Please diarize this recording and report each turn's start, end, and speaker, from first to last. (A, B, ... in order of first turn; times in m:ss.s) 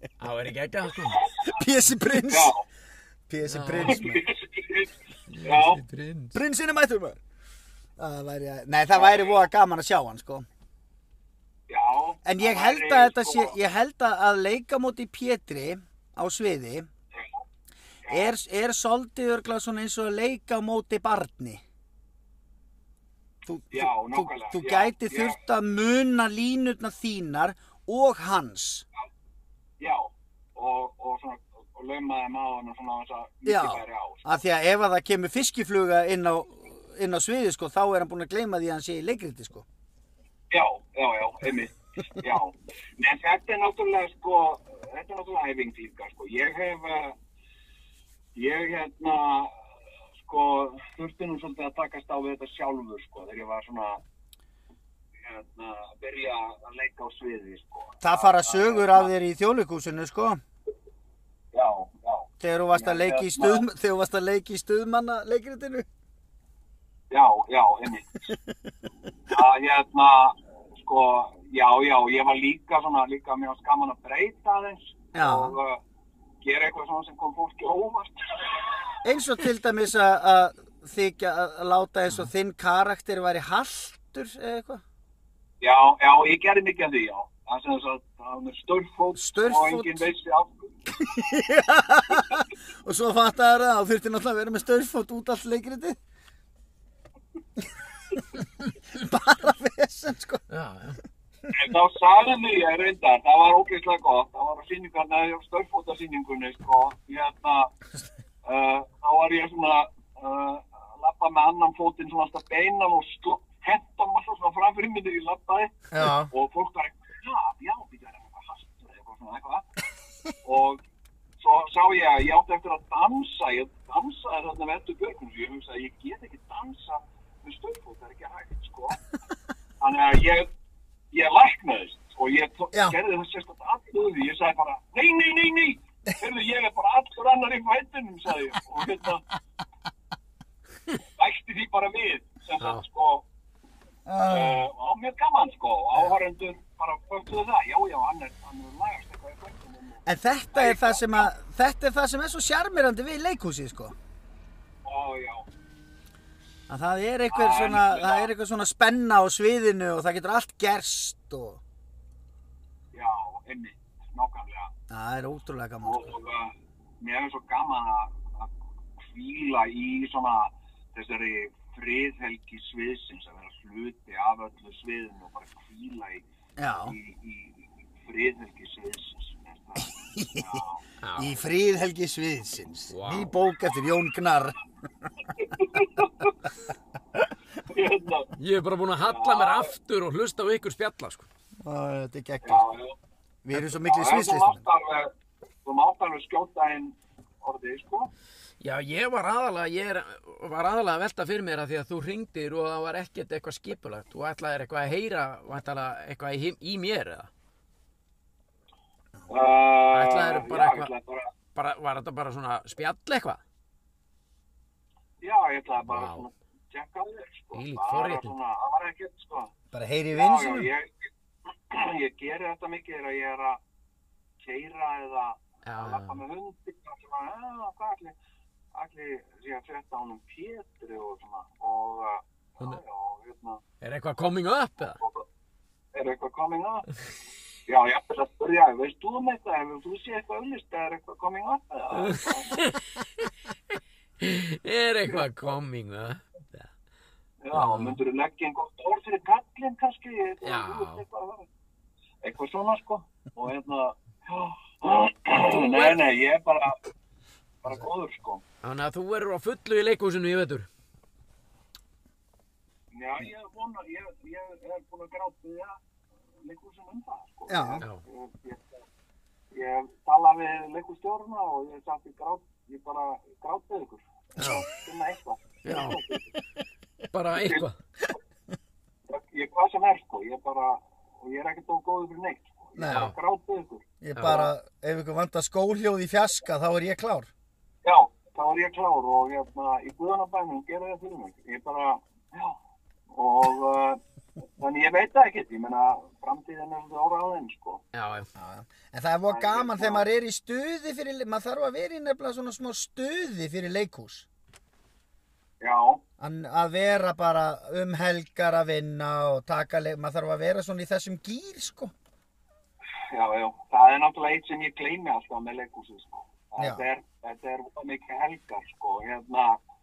0:00.2-0:01.2 A
0:01.4-0:02.5 B
0:02.3-0:02.6 C
0:03.3-0:04.2 B
0:03.4-0:04.0 A
0:03.8-0:05.8 C
0:05.3-0:06.4 A
0:06.3-0:07.2 B
0:08.0-0:10.4 B
0:09.0-0:09.3 C
0:11.7-0:13.6 C
0:12.2-0:16.9 B
0:17.1-0:17.4 C
0:18.0-0:18.3 C
0:18.1-0:21.6 B
0:23.4-0:28.8 B
0:23.7-0:25.4 C
0:29.8-0:34.4 C
0:33.4-0:39.6 B
0:40.5-0:47.2 C
0:48.3-0:49.5 C
0:50.2-0:54.0 C
0:55.2-0:59.1 C
0:58.0-1:00.4 B
1:01.5-1:03.6 C
1:02.4-1:05.9 B
1:07.1-1:08.3 C
1:09.3-1:15.8 C
1:15.1-1:15.6 B
1:16.4-1:19.0 C
1:19.0-1:24.8 B
1:25.6-1:30.8 C
1:29.1-1:30.1 B
1:31.0-1:36.0 B
1:38.9-1:40.4 B
1:40.5-1:41.0 A
1:41.5-1:47.7 C
1:48.4-1:59.6 C
1:55.9-1:56.3 B
2:00.4-2:00.8 C
2:01.4-2:09.0 C
2:09.8-2:10.5 C
2:11.1-2:19.2 C
2:21.2-2:23.2 C
2:22.6-2:22.8 A
2:24.0-2:24.7 B
2:24.3-2:31.3 C
2:30.0-2:34.0 B
2:34.8-2:35.5 C
2:36.7-2:41.6 B
2:37.3-2:38.3 C
2:42.9-2:44.7 C
2:44.9-2:46.1 B
2:45.8-2:56.2 C
2:56.6-2:57.0 B
2:56.8-3:00.8 C
2:59.8-3:00.6 B
3:01.0-3:01.4 A
3:01.2-3:04.6 B
3:02.9-3:03.3 A
3:05.3-3:06.3 C
3:07.6-3:08.3 C
3:08.4-3:11.3 A
3:09.0-3:09.7 C
3:11.6-3:12.6 B
3:12.4-3:13.0 C
3:13.4-3:14.6 B
3:13.7-3:15.1 C
3:15.6-3:18.1 C
3:18.6-3:27.3 A
3:29.3-3:31.3 C
3:29.9-3:30.9 A
3:31.5-3:33.4 A
3:35.2-3:39.5 C
3:35.8-3:36.2 A
3:37.5-3:38.3 A
3:39.7-3:40.7 B
3:40.1-3:43.6 C
3:44.4-3:48.2 C
3:45.6-3:46.2 A
3:48.7-3:53.6 C
3:53.8-3:55.0 A
3:55.0-3:55.2 C
3:55.9-3:56.9 C
3:57.6-4:02.6 C
4:01.9-4:03.0 A
4:04.2-4:06.7 A
4:07.4-4:11.5 C
4:07.5-4:08.0 A
4:10.4-4:11.0 A
4:12.2-4:16.8 C
4:15.4-4:16.0 A
4:17.6-4:18.4 C
4:18.6-4:20.7 A
4:22.9-4:25.8 C
4:26.4-4:28.8 C
4:27.5-4:27.8 B
4:29.5-4:36.3 C
4:34.4-4:34.7 B
4:35.6-4:36.0 A
4:37.1-4:37.8 A
4:37.4-4:37.6 C
4:39.1-4:44.5 C
4:42.8-4:43.1 B
4:42.9-4:43.1 A
4:44.0-4:47.3 B
4:44.1-4:44.4 A
4:47.8-4:52.6 C
4:53.1-4:57.8 C
4:57.9-4:58.3 A
4:58.4-5:04.3 B
4:59.3-5:00.0 C
5:05.6-5:06.0 C
5:06.2-5:11.9 B
5:13.1-5:19.6 C
5:16.6-5:16.8 B